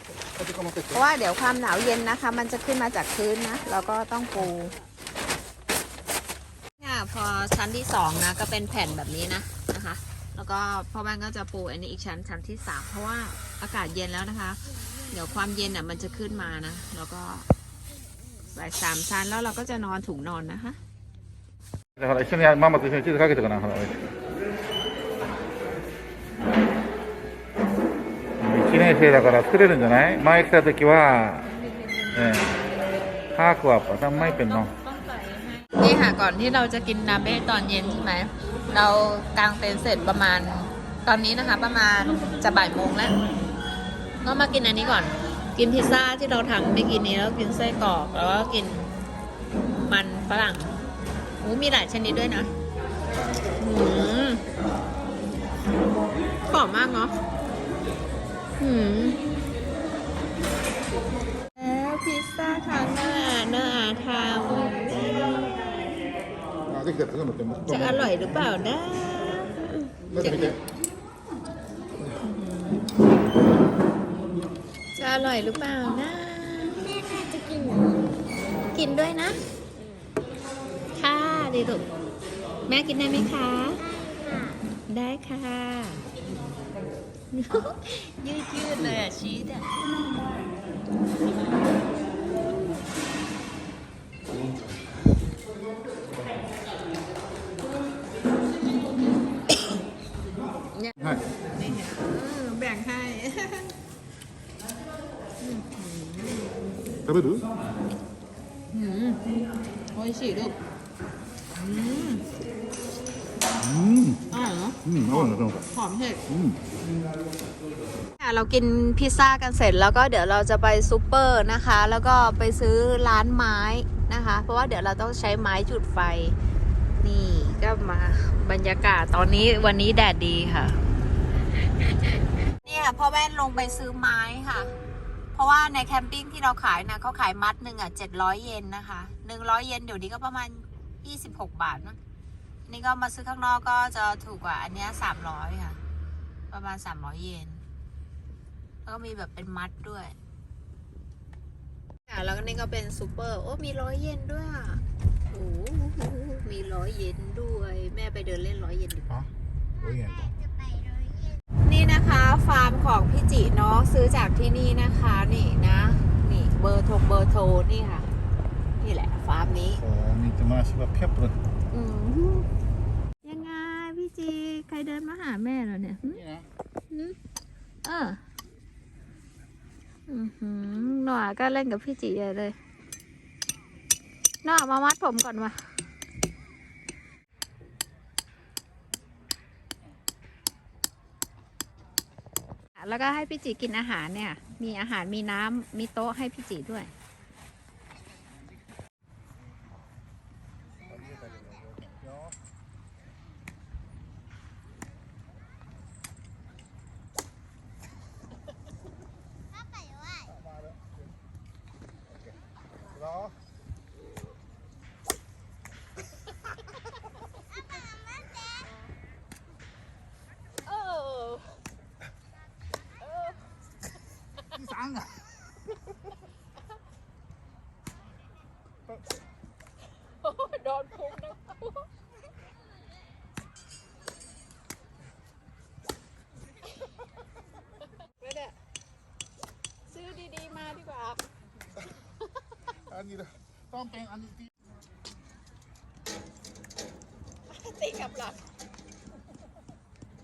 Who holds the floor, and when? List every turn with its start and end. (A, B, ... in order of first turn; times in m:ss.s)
0:00.2-0:01.0 A
0:00.9-0:04.8 B
0:06.8-0:17.5 B
0:18.5-0:20.8 B
0:22.0-0:24.0 A
0:28.4-0:31.5 A
0:31.6-0:32.6 B
0:32.1-0:32.5 A
0:33.3-0:34.7 A
0:34.8-0:43.2 B
0:44.2-0:48.9 B
0:49.7-0:50.7 B
0:51.4-0:52.5 B
0:53.6-0:54.4 B
0:56.5-0:57.1 B
0:58.6-0:59.2 B
1:01.6-1:05.4 B
1:06.7-1:08.5 A
1:07.7-1:10.6 B
1:10.1-1:10.6 A
1:12.2-1:12.9 B
1:15.0-1:16.9 B
1:16.9-1:17.9 C
1:18.7-1:19.4 B
1:21.0-1:21.9 B
1:22.7-1:23.8 B
1:23.8-1:24.6 C
1:24.9-1:26.0 B
1:27.3-1:29.7 B
1:40.7-1:43.8 B
1:45.4-1:46.5 B
1:47.1-1:47.5 A
1:48.7-1:49.3 B
1:49.9-1:50.6 B
1:51.6-1:52.2 B
1:53.6-1:54.2 A
1:54.3-1:56.2 B
1:54.8-1:55.7 A
1:56.3-1:56.6 A
1:58.2-2:06.4 B
2:07.0-2:10.8 B
2:12.6-2:14.7 B
2:15.3-2:22.0 B
2:22.7-2:25.8 B
2:26.5-2:27.6 B
2:28.8-2:30.2 B
2:32.1-2:39.1 B
2:39.1-2:40.3 A
2:40.0-2:41.4 C
2:41.6-2:48.1 B
2:48.8-2:49.8 B
2:49.7-2:51.4 A
2:51.7-2:52.5 B
2:53.2-2:56.2 B
2:56.1-2:56.5 A
2:56.9-2:57.2 B
2:57.8-2:58.2 B
3:00.1-3:02.6 B
3:04.4-3:05.7 B
3:12.8-3:16.9 B
3:20.9-3:22.4 A
3:29.6-3:30.4 C
3:37.5-3:38.7 C
3:40.7-3:41.6 B
3:43.0-3:43.4 B
3:44.5-3:45.3 A
3:50.2-3:51.9 B
3:58.0-3:58.6 B
3:59.9-4:01.2 B
4:02.8-4:04.5 A
4:07.5-4:08.4 B